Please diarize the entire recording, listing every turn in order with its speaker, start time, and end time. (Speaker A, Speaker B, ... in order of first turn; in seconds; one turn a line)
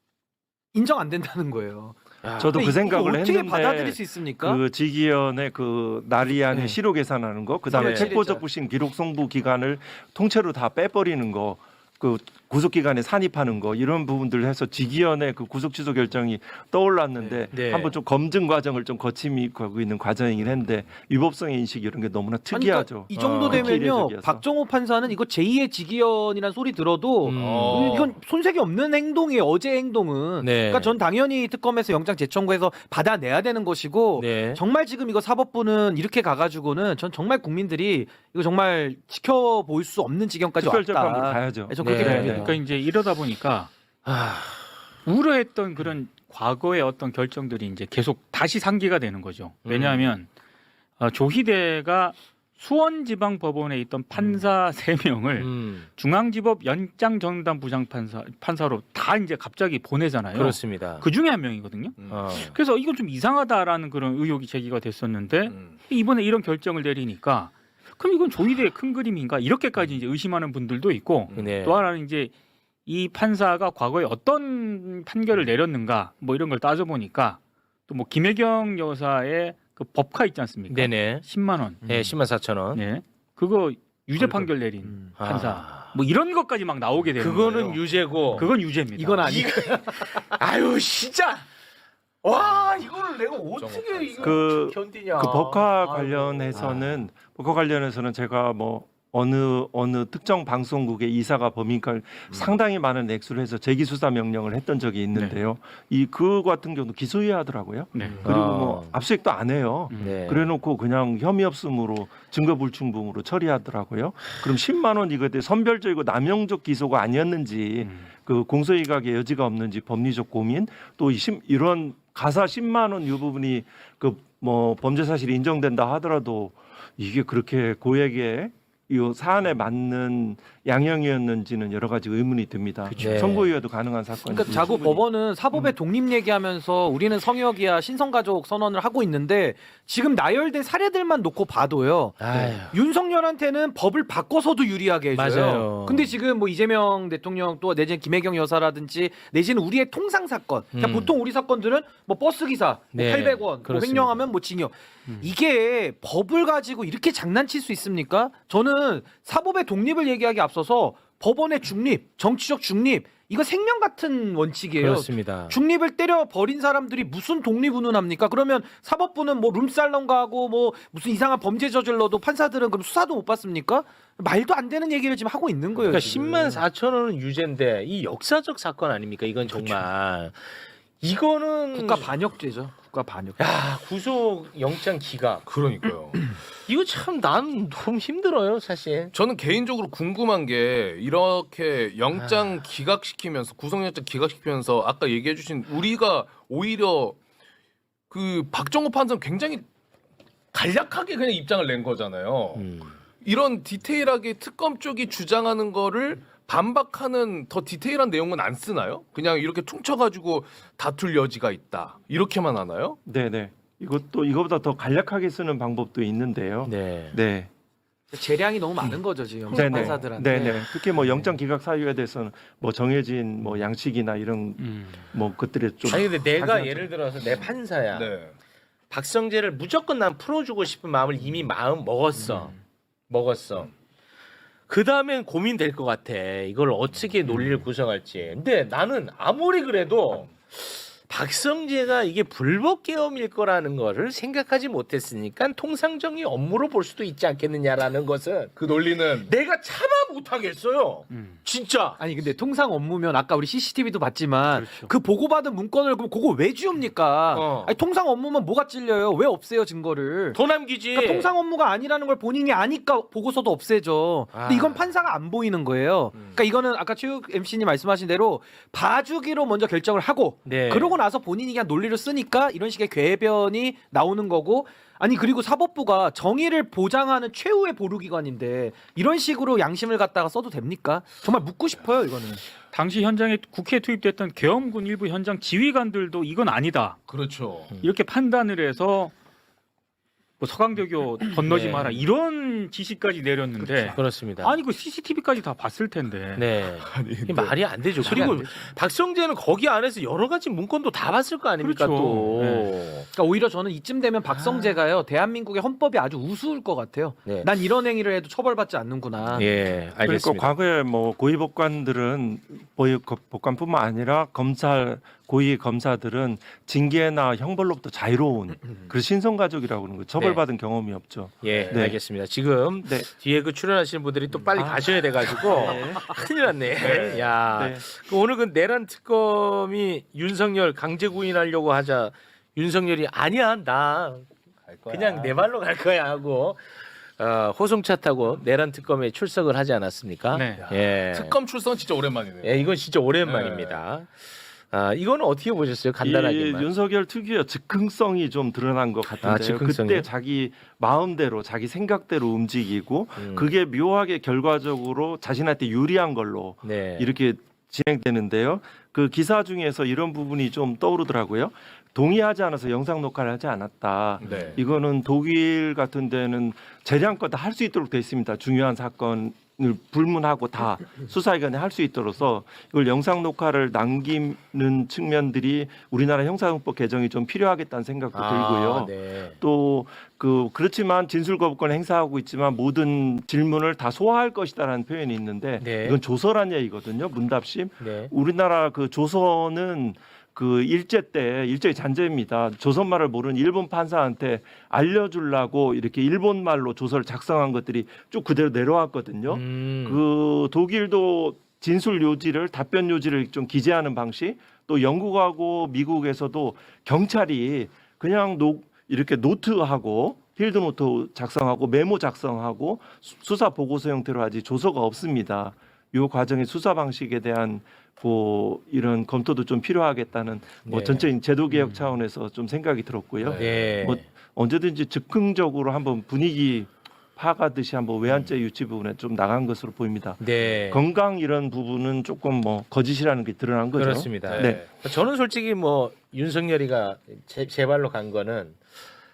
Speaker A: 0.7-2.0
Speaker B: 2.2-2.6
Speaker C: 2.4-24.4
Speaker A: 2.5-4.6
Speaker A: 7.7-8.4
Speaker B: 7.7-8.1
Speaker B: 17.5-17.9
Speaker A: 22.5-42.6
Speaker B: 23.1-23.8
Speaker B: 27.2-28.1
Speaker D: 27.3-28.1
Speaker B: 30.4-30.9
Speaker B: 34.1-34.6
Speaker C: 40.6-42.5
Speaker B: 41.8-42.5
Speaker E: 41.9-43.7
Speaker B: 44.0-44.7
Speaker E: 45.0-50.3
Speaker B: 49.6-50.1
Speaker E: 51.0-72.3
Speaker B: 54.1-54.4
Speaker B: 55.4-55.9
Speaker B: 60.3-61.1
Speaker D: 62.0-62.3
Speaker B: 62.1-62.5
Speaker D: 65.5-65.8
Speaker D: 71.3-71.6
Speaker B: 71.3-71.8
Speaker E: 72.8-81.8
Speaker B: 80.7-81.2
Speaker A: 81.8-82.1
Speaker B: 81.8-82.8
Speaker E: 82.7-87.8
Speaker B: 85.2-86.0
Speaker B: 87.2-88.5
Speaker E: 88.3-89.4
Speaker A: 89.0-90.2
Speaker B: 89.2-91.5
Speaker B: 92.2-97.0
Speaker D: 93.5-94.4
Speaker C: 94.2-135.1
Speaker B: 108.2-108.9
Speaker E: 109.9-110.1
Speaker B: 110.0-110.5
Speaker E: 132.9-133.3
Speaker B: 133.0-133.5
Speaker A: 134.2-176.6
Speaker B: 142.2-142.7
Speaker B: 145.1-146.1
Speaker B: 150.7-151.1
Speaker B: 152.9-154.3
Speaker B: 164.8-165.6
Speaker B: 175.8-182.1
Speaker A: 181.7-183.4
Speaker B: 183.4-185.4
Speaker D: 185.4-186.3
Speaker B: 186.7-189.1
Speaker D: 189.1-197.2
Speaker B: 192.1-192.6
Speaker D: 198.1-199.7
Speaker D: 200.5-202.7
Speaker B: 202.5-202.9
Speaker D: 203.2-213.0
Speaker C: 213.1-217.5
Speaker B: 216.7-217.2
Speaker A: 218.1-220.7
Speaker C: 219.5-226.9
Speaker E: 224.6-225.0
Speaker B: 225.8-228.1
Speaker D: 227.9-228.3
Speaker B: 228.9-232.5
Speaker B: 233.1-233.7
Speaker B: 234.7-248.6
Speaker D: 248.6-249.3
Speaker B: 249.2-252.0
Speaker E: 251.1-251.4
Speaker A: 252.0-260.4
Speaker E: 254.5-254.9
Speaker B: 257.3-257.7
Speaker B: 260.3-261.3
Speaker A: 260.9-282.4
Speaker B: 264.3-264.9
Speaker B: 270.4-270.9
Speaker E: 282.7-287.0
Speaker D: 287.1-287.8
Speaker E: 287.8-289.1
Speaker E: 290.4-296.4
Speaker B: 291.4-292.1
Speaker A: 293.6-294.0
Speaker B: 293.9-294.6
Speaker B: 296.3-303.1
Speaker D: 296.8-298.3
Speaker A: 298.0-298.7
Speaker E: 298.0-298.4
Speaker E: 301.6-302.7
Speaker A: 303.1-309.5
Speaker B: 304.4-304.7
Speaker B: 309.3-310.5
Speaker C: 310.0-322.0
Speaker B: 321.4-334.3
Speaker C: 322.8-323.1
Speaker C: 324.6-326.2
Speaker C: 326.8-327.8
Speaker D: 326.8-327.3
Speaker D: 334.7-335.4
Speaker B: 334.9-336.6
Speaker B: 337.2-341.4
Speaker E: 340.3-340.6
Speaker D: 340.6-342.7
Speaker B: 342.4-346.7
Speaker D: 343.2-343.8
Speaker C: 346.0-434.6
Speaker B: 349.2-350.1
Speaker B: 353.2-353.5
Speaker B: 356.6-357.1
Speaker D: 364.2-364.6
Speaker B: 378.1-379.4
Speaker B: 385.6-386.0
Speaker B: 387.8-388.1
Speaker B: 399.3-400.0
Speaker B: 420.6-421.1
Speaker D: 423.2-423.7
Speaker B: 423.4-424.0
Speaker B: 428.1-428.3
Speaker B: 430.2-430.8
Speaker B: 433.7-438.6
Speaker D: 434.2-434.7